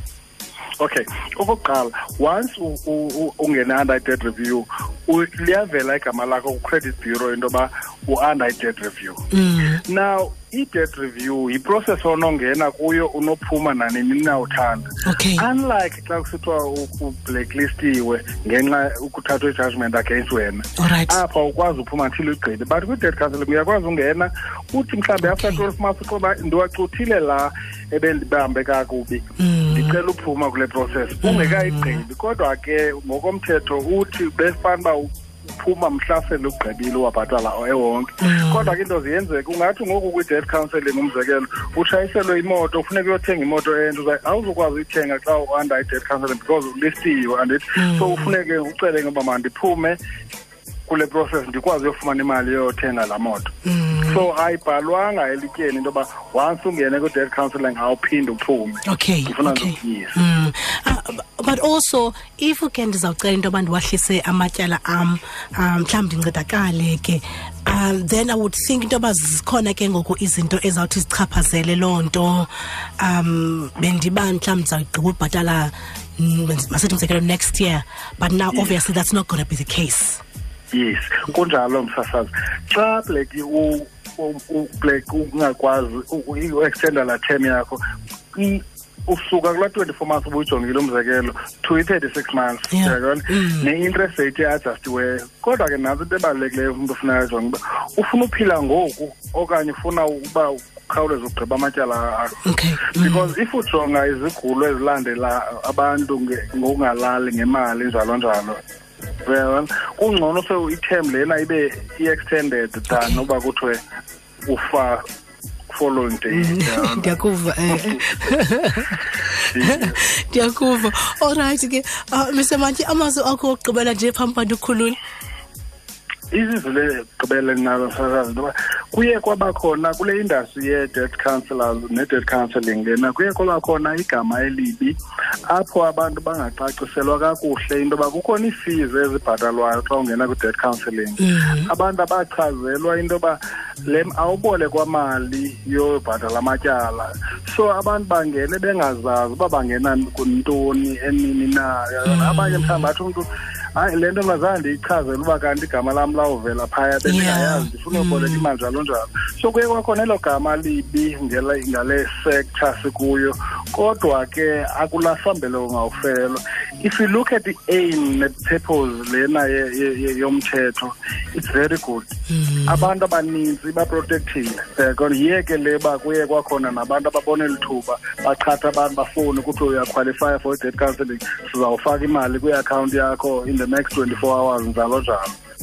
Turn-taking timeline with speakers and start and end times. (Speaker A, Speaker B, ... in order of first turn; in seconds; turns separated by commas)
Speaker A: 0.8-9.2, Speaker B: 9.3-9.8, Speaker A: 9.8-50.0, Speaker B: 15.0-15.4, Speaker B: 20.8-21.2, Speaker B: 25.2-25.6, Speaker B: 29.4-30.0, Speaker B: 31.2-32.0, Speaker B: 38.2-38.7, Speaker B: 47.7-48.3, Speaker A: 50.9-53.5, Speaker B: 53.6-54.2, Speaker A: 54.0-60.2, Speaker B: 58.8-72.5, Speaker B: 73.0-80.2, Speaker A: 80.7-87.8, Speaker A: 88.3-108.6, Speaker B: 92.7-93.7, Speaker B: 102.4-103.3, Speaker A: 109.2-113.8, Speaker B: 112.9-113.2, Speaker A: 114.5-115.0, Speaker A: 115.7-117.2, Speaker B: 116.3-119.0, Speaker A: 119.5-120.0, Speaker B: 119.6-125.0, Speaker A: 126.3-134.9, Speaker A: 135.5-172.1, Speaker B: 141.2-141.7, Speaker B: 152.0-152.9, Speaker B: 157.0-158.5, Speaker B: 172.3-172.9, Speaker A: 172.7-185.3